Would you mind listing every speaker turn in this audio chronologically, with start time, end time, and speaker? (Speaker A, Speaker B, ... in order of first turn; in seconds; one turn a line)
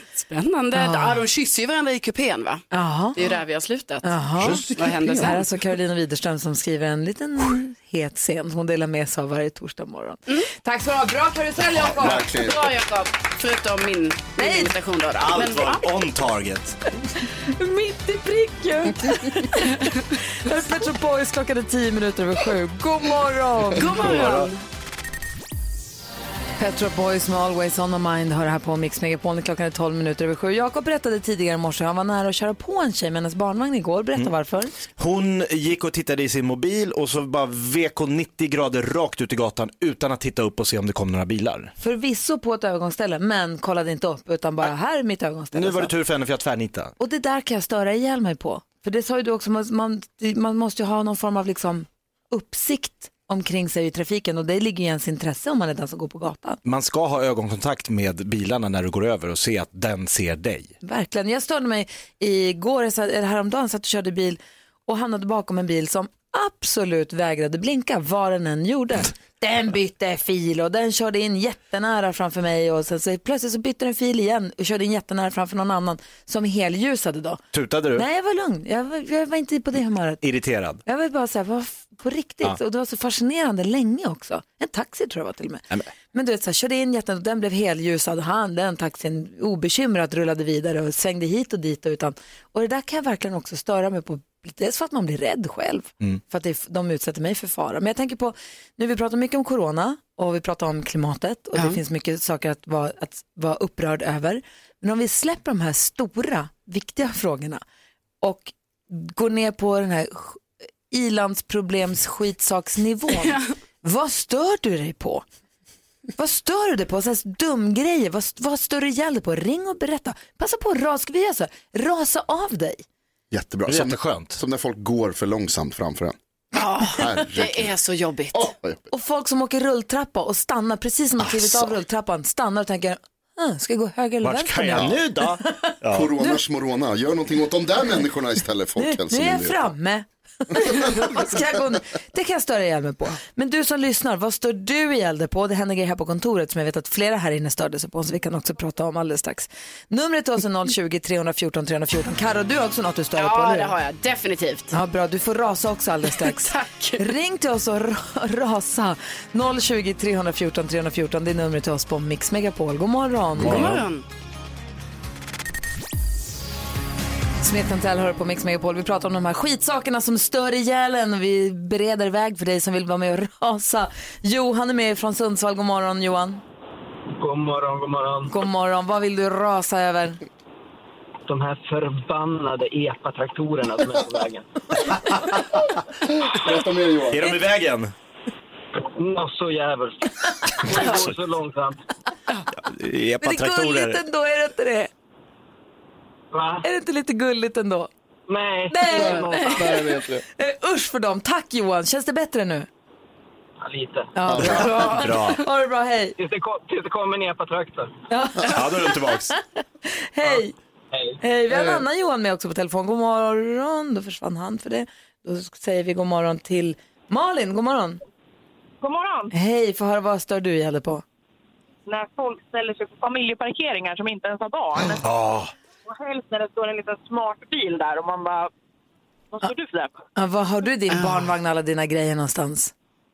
Speaker A: 0.1-5.5
Speaker B: 0.7-1.2
Speaker B: 2.7-3.2
Speaker B: 4.0-12.3
Speaker C: 4.4-4.7
Speaker D: 4.7-5.1
Speaker D: 11.9-12.7
Speaker A: 12.1-15.9
Speaker B: 14.4-14.7
Speaker C: 15.2-16.8
Speaker B: 17.6-24.1
Speaker A: 23.7-24.6
Speaker C: 23.8-24.5
Speaker B: 26.6-34.8
Speaker C: 35.0-41.7
Speaker B: 41.8-45.9
Speaker C: 45.5-46.9
Speaker B: 47.0-56.6
Speaker C: 56.6-60.7
Speaker B: 60.8-77.4
Speaker C: 77.5-78.0
Speaker B: 77.9-80.2
Speaker C: 80.2-80.8
Speaker B: 80.8-107.6
Speaker A: 101.5-101.8
Speaker B: 108.2-115.2
Speaker A: 113.2-113.4
Speaker B: 116.2-122.8
Speaker D: 123.3-126.2
Speaker C: 123.7-124.4
Speaker A: 126.5-128.5
Speaker D: 126.8-127.7
Speaker B: 126.9-127.2
Speaker D: 128.3-128.8
Speaker B: 128.9-136.4
Speaker D: 131.2-131.7
Speaker C: 134.2-136.1
Speaker D: 134.7-135.0
Speaker D: 135.9-139.6
Speaker B: 138.8-153.7
Speaker A: 153.2-154.7
Speaker B: 154.7-163.8
Speaker A: 156.2-157.1
Speaker A: 163.4-164.0
Speaker C: 163.4-163.7
Speaker B: 167.4-176.4
Speaker E: 177.2-178.3
Speaker B: 178.3-180.2
Speaker E: 181.2-185.1
Speaker D: 186.2-187.3
Speaker C: 187.1-187.9
Speaker E: 189.0-191.8
Speaker C: 192.6-194.0
Speaker B: 193.2-194.9
Speaker E: 196.3-196.7
Speaker B: 196.6-197.9
Speaker E: 198.3-199.8
Speaker B: 198.7-202.7
Speaker A: 198.9-199.6
Speaker D: 199.5-200.2
Speaker E: 203.6-204.1
Speaker B: 204.1-206.2
Speaker D: 204.3-204.9
Speaker C: 204.4-205.4
Speaker A: 204.7-205.0
Speaker E: 206.2-207.9
Speaker B: 208.1-209.4
Speaker C: 208.5-209.3
Speaker B: 210.1-210.5
Speaker E: 210.9-211.2
Speaker B: 211.2-218.0
Speaker F: 218.8-219.3
Speaker B: 219.3-221.0
Speaker F: 221.8-225.0
Speaker C: 224.8-225.5
Speaker F: 225.9-228.5
Speaker F: 229.3-230.0
Speaker B: 230.2-232.7
Speaker A: 230.9-231.3